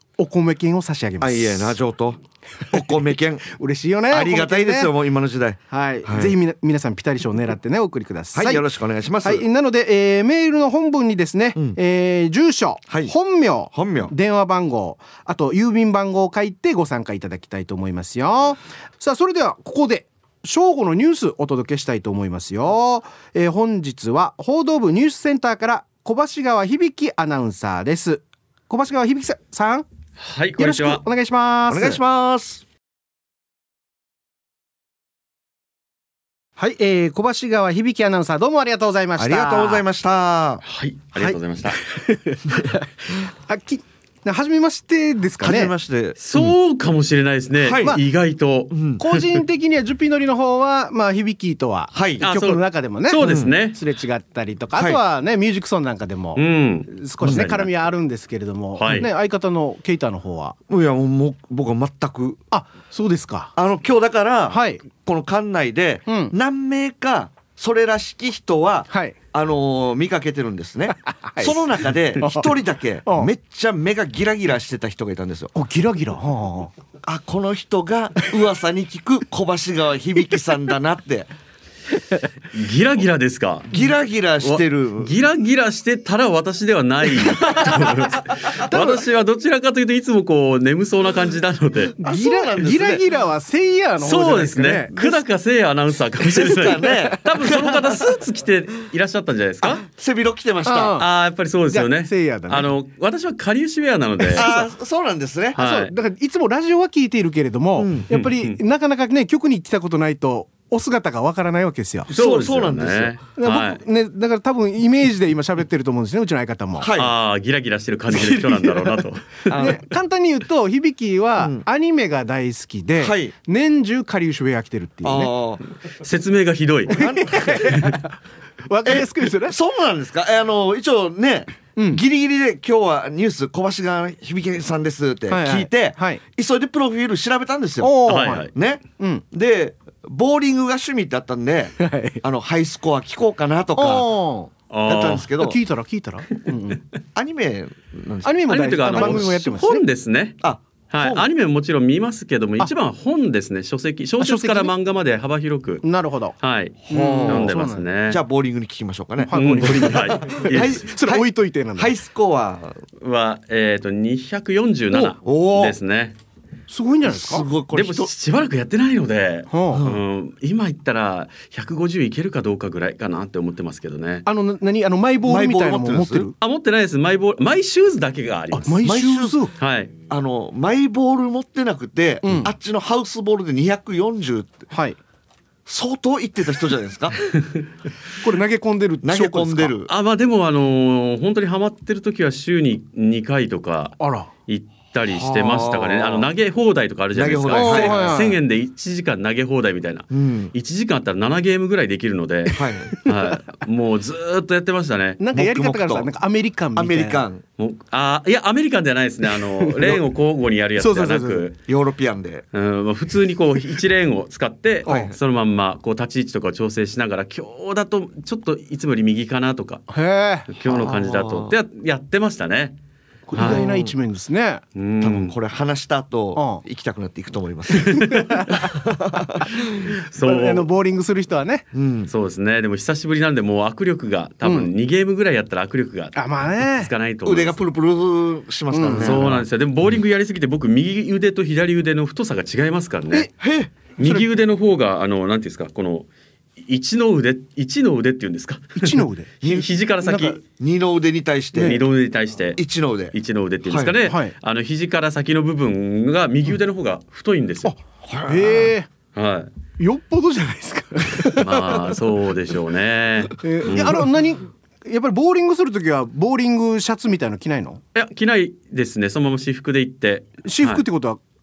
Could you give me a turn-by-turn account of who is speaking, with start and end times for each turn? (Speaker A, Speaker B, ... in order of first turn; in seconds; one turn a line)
Speaker A: 0.2-1.8
Speaker B: 1.2-3.5
Speaker A: 3.5-4.9
Speaker B: 4.1-6.3
Speaker A: 5.7-8.7
Speaker B: 8.3-9.4
Speaker A: 9.2-29.9
Speaker B: 13.7-14.1
Speaker C: 30.2-31.0
Speaker A: 30.6-32.0
Speaker B: 31.7-32.6
Speaker A: 36.6-39.8
Speaker B: 39.2-40.6
Speaker C: 40.6-41.8
Speaker A: 41.2-45.7
Speaker B: 45.4-46.5
Speaker C: 46.2-49.4
Speaker B: 47.6-48.0
Speaker B: 48.7-49.0
Speaker A: 49.0-60.6
Speaker B: 51.9-52.2
Speaker C: 52.2-53.8
Speaker B: 53.2-53.5
Speaker C: 56.4-57.7
Speaker B: 57.2-57.5
Speaker C: 58.8-59.1
Speaker B: 60.7-62.4
Speaker A: 62.5-63.5
Speaker B: 63.6-75.5
Speaker A: 64.5-64.8
Speaker A: 66.1-66.3
Speaker A: 68.9-69.2
Speaker A: 70.9-73.3
Speaker A: 75.5-76.7
Speaker B: 77.0-81.3
Speaker C: 82.5-83.7
Speaker B: 83.7-85.1
Speaker C: 84.4-92.0
Speaker A: 88.7-89.0
Speaker A: 92.0-95.2
Speaker B: 92.0-93.0
Speaker C: 94.0-99.9
Speaker B: 96.2-98.1
Speaker B: 99.8-101.0
Speaker A: 100.7-101.1
Speaker C: 100.9-104.6
Speaker A: 101.7-102.7
Speaker A: 104.2-104.7
Speaker B: 104.3-105.6
Speaker A: 105.6-112.1
Speaker C: 105.6-105.9
Speaker B: 107.8-108.1
Speaker C: 108.1-108.6
Speaker B: 112.1-113.2
Speaker C: 112.1-113.8
Speaker A: 113.4-116.9
Speaker B: 116.8-117.1
Speaker C: 117.0-119.7
Speaker A: 118.1-119.0
Speaker B: 119.5-119.8
Speaker A: 119.5-125.3
Speaker B: 123.0-123.3
Speaker B: 125.0-125.6
Speaker C: 126.0-127.9
Speaker B: 126.9-127.8
Speaker A: 126.9-129.6
Speaker B: 128.8-144.1
Speaker A: 131.8-132.0
Speaker A: 135.3-136.2
Speaker A: 137.8-139.2
Speaker C: 138.1-138.5
Speaker A: 141.8-142.2
Speaker A: 143.8-144.5
Speaker C: 144.7-145.3
Speaker B: 144.9-145.6
Speaker A: 145.4-146.8
Speaker B: 147.2-149.3
Speaker A: 148.2-149.8
Speaker C: 148.5-150.4
Speaker B: 150.4-151.3
Speaker C: 150.9-155.8
Speaker A: 154.2-154.7
Speaker A: 155.8-156.3
Speaker C: 156.4-158.2
Speaker B: 156.8-161.3
Speaker A: 156.9-157.9
Speaker A: 159.2-162.0
Speaker C: 159.3-160.9
Speaker B: 161.8-162.8
Speaker C: 163.0-166.2
Speaker B: 165.0-165.8
Speaker A: 166.7-167.5
Speaker B: 167.1-168.1
Speaker C: 167.7-174.2
Speaker A: 169.5-169.8
Speaker B: 169.7-170.0
Speaker A: 174.2-176.3
Speaker B: 175.2-176.3
Speaker C: 176.4-178.9
Speaker A: 178.5-179.5
Speaker B: 178.8-179.4
Speaker C: 179.6-179.9
Speaker B: 180.1-184.6
Speaker A: 182.2-182.5
Speaker A: 184.7-185.0
Speaker B: 185.7-187.2
Speaker A: 188.2-189.7
Speaker B: 189.0-189.9
Speaker C: 189.9-205.2
Speaker A: 194.0-194.3
Speaker B: 195.1-196.3
Speaker B: 197.2-198.2
Speaker A: 197.5-198.4
Speaker B: 200.1-200.5
Speaker B: 202.6-202.9
Speaker A: 205.2-207.2
Speaker B: 205.3-206.1
Speaker B: 206.8-207.4
Speaker C: 207.6-211.6
Speaker A: 209.6-210.0
Speaker A: 210.8-211.5
Speaker B: 211.7-212.5
Speaker C: 212.5-219.8
Speaker B: 214.8-215.2
Speaker A: 214.9-215.1
Speaker A: 219.9-220.6
Speaker C: 220.5-222.8
Speaker B: 220.7-221.6
Speaker A: 223.3-224.6
Speaker C: 223.3-223.6
Speaker B: 223.4-223.9
Speaker C: 224.8-225.4
Speaker B: 225.0-228.1
Speaker A: 226.3-226.6
Speaker C: 227.8-228.5
Speaker A: 228.0-228.8
Speaker B: 228.7-229.9
Speaker C: 230.1-230.7
Speaker A: 230.2-231.7
Speaker B: 231.7-232.1
Speaker C: 232.1-237.6
Speaker A: 234.4-234.7
Speaker A: 236.2-236.9
Speaker B: 237.2-239.4
Speaker A: 238.7-239.4
Speaker C: 238.9-243.3
Speaker B: 243.4-243.7
Speaker A: 244.0-244.3
Speaker C: 244.0-250.4
Speaker A: 248.8-249.3
Speaker B: 249.4-251.8
Speaker A: 250.1-250.3
Speaker A: 251.6-251.8
Speaker C: 251.6-252.6
Speaker B: 252.6-253.1
Speaker C: 253.1-257.8
Speaker B: 253.7-254.0
Speaker A: 254.0-254.3
Speaker A: 257.6-258.9
Speaker B: 258.0-258.7
Speaker C: 259.1-259.5
Speaker A: 259.8-261.8
Speaker C: 261.4-264.1
Speaker A: 263.4-267.8
Speaker C: 267.9-270.8
Speaker A: 270.4-271.2